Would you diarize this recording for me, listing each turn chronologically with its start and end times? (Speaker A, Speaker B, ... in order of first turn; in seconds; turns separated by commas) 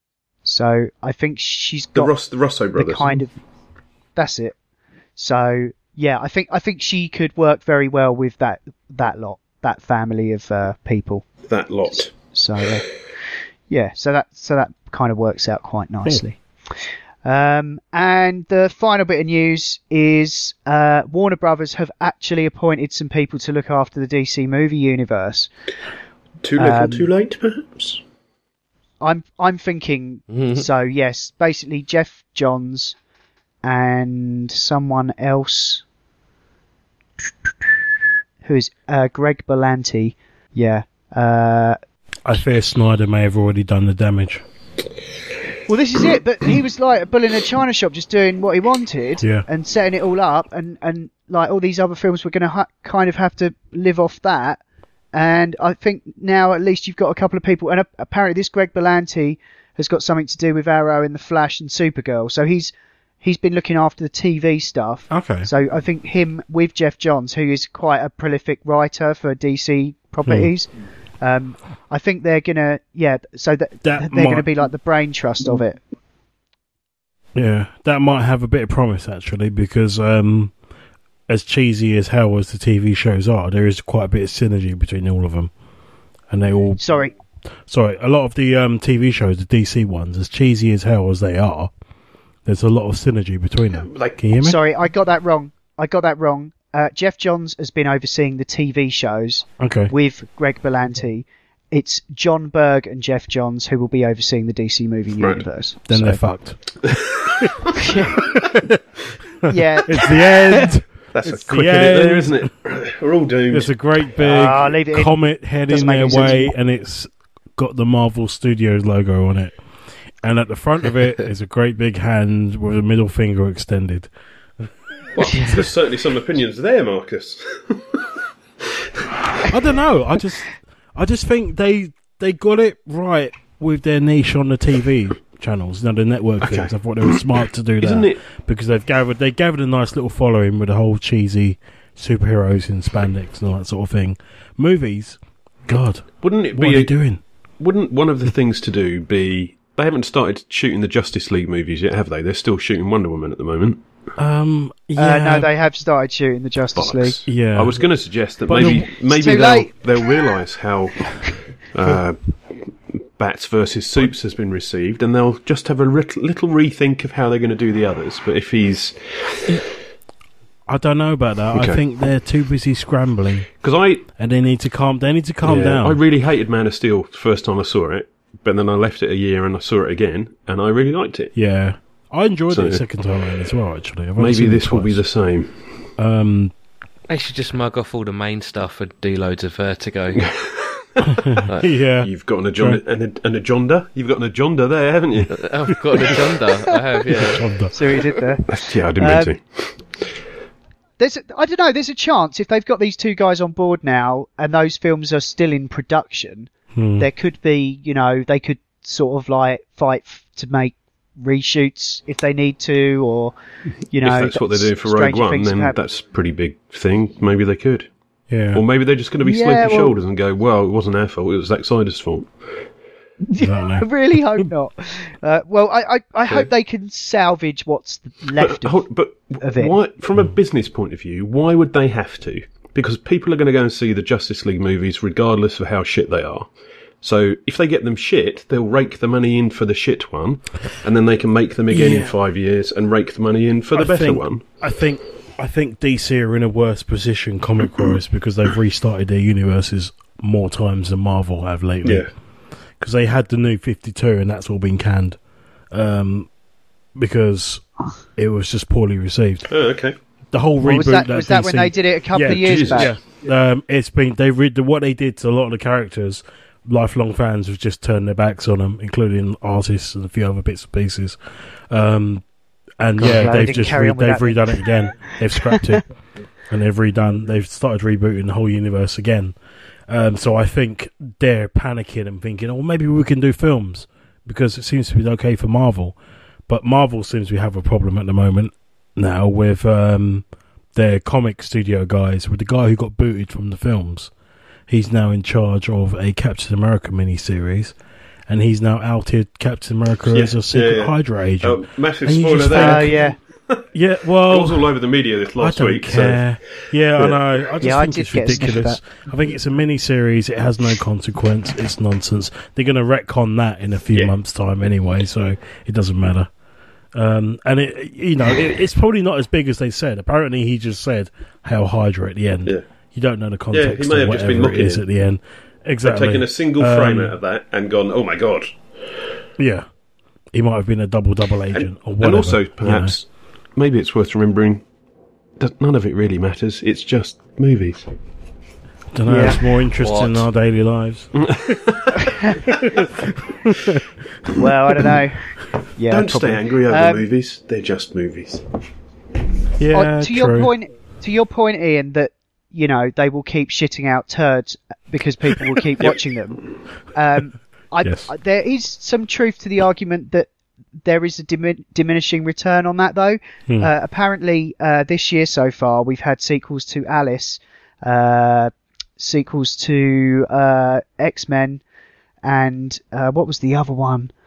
Speaker A: 0.5-2.1, Speaker B: 1.9-3.2, Speaker A: 2.8-3.4, Speaker A: 4.2-4.6, Speaker A: 5.2-11.3, Speaker B: 11.5-12.1, Speaker A: 11.9-12.9, Speaker A: 13.7-25.5, Speaker B: 26.4-28.0, Speaker A: 26.6-27.1, Speaker A: 29.0-33.0, Speaker C: 30.3-30.6, Speaker A: 33.6-35.8, Speaker A: 38.4-41.8, Speaker D: 42.3-44.4, Speaker A: 45.7-54.6, Speaker A: 55.1-70.7, Speaker D: 65.1-65.5, Speaker A: 71.2-75.8, Speaker D: 73.8-74.5, Speaker D: 77.3-80.5, Speaker D: 81.3-85.5, Speaker D: 86.3-86.8, Speaker A: 86.8-87.1, Speaker D: 87.7-91.7, Speaker D: 92.5-94.6, Speaker B: 93.7-94.2, Speaker A: 94.4-106.2, Speaker D: 99.6-99.9, Speaker B: 105.2-105.5, Speaker D: 105.9-106.6, Speaker B: 106.9-107.2, Speaker A: 107.9-108.2, Speaker D: 108.3-108.8, Speaker D: 109.5-112.5, Speaker A: 109.5-110.6, Speaker B: 111.1-113.7, Speaker D: 113.5-119.5, Speaker A: 114.2-116.5, Speaker D: 120.2-124.1, Speaker B: 125.2-128.0, Speaker D: 129.5-147.2, Speaker B: 136.4-137.1, Speaker B: 137.8-138.2, Speaker B: 146.2-146.9, Speaker B: 147.6-153.8, Speaker D: 154.2-155.5, Speaker A: 155.0-157.2, Speaker B: 156.8-162.2, Speaker D: 157.3-157.8, Speaker D: 158.5-158.9, Speaker A: 158.6-159.8, Speaker B: 162.9-169.6, Speaker D: 170.7-173.5, Speaker B: 171.5-171.8, Speaker B: 173.6-174.1, Speaker D: 174.2-176.0, Speaker B: 175.4-181.3, Speaker D: 181.3-185.0, Speaker B: 182.5-182.8, Speaker B: 184.2-185.8, Speaker D: 186.0-186.5, Speaker C: 187.1-190.2, Speaker B: 190.2-191.2, Speaker D: 191.1-192.8, Speaker B: 192.0-195.4, Speaker C: 195.3-197.4, Speaker D: 197.1-197.7, Speaker A: 197.7-199.3, Speaker B: 198.5-199.8, Speaker A: 201.0-213.3, Speaker D: 206.8-207.1, Speaker A: 213.9-215.8, Speaker B: 214.0-217.9, Speaker D: 218.3-218.6, Speaker B: 218.5-222.5, Speaker A: 219.2-219.9, Speaker A: 223.2-228.8, Speaker D: 223.4-224.4, Speaker B: 228.4-236.5, Speaker A: 229.4-229.8, Speaker B: 237.0-244.5, Speaker D: 241.7-242.1, Speaker D: 243.7-252.1, Speaker D: 252.8-255.2, Speaker D: 255.7-256.3, Speaker D: 257.0-257.6, Speaker D: 258.2-259.5, Speaker B: 259.5-260.0, Speaker D: 260.3-271.2, Speaker A: 260.6-262.9, Speaker B: 262.3-262.9, Speaker D: 271.7-272.2, Speaker D: 272.8-275.8, Speaker A: 273.0-274.6, Speaker A: 275.4-275.8, Speaker D: 276.5-279.4, Speaker D: 279.9-286.0, Speaker D: 286.5-294.1, Speaker D: 294.7-297.7, Speaker D: 298.3-303.1, Speaker B: 300.1-303.7, Speaker A: 302.5-303.2, Speaker D: 303.7-304.7, Speaker B: 304.2-307.2, Speaker D: 305.4-316.3, Speaker A: 307.6-308.8, Speaker D: 316.9-327.1, Speaker B: 323.5-324.9, Speaker B: 325.8-328.6, Speaker D: 329.4-329.7, Speaker D: 330.3-332.9, Speaker B: 331.5-334.6, Speaker B: 335.4-337.8, Speaker D: 338.9-341.1, Speaker A: 339.1-339.4, Speaker C: 339.8-340.2, Speaker B: 341.2-342.1, Speaker A: 342.1-342.4, Speaker D: 342.5-343.1, Speaker A: 344.4-347.1, Speaker B: 345.9-348.4, Speaker D: 349.6-350.5, Speaker A: 349.7-360.3, Speaker B: 355.8-356.4, Speaker D: 357.8-358.1, Speaker A: 360.8-371.6, Speaker A: 372.2-374.1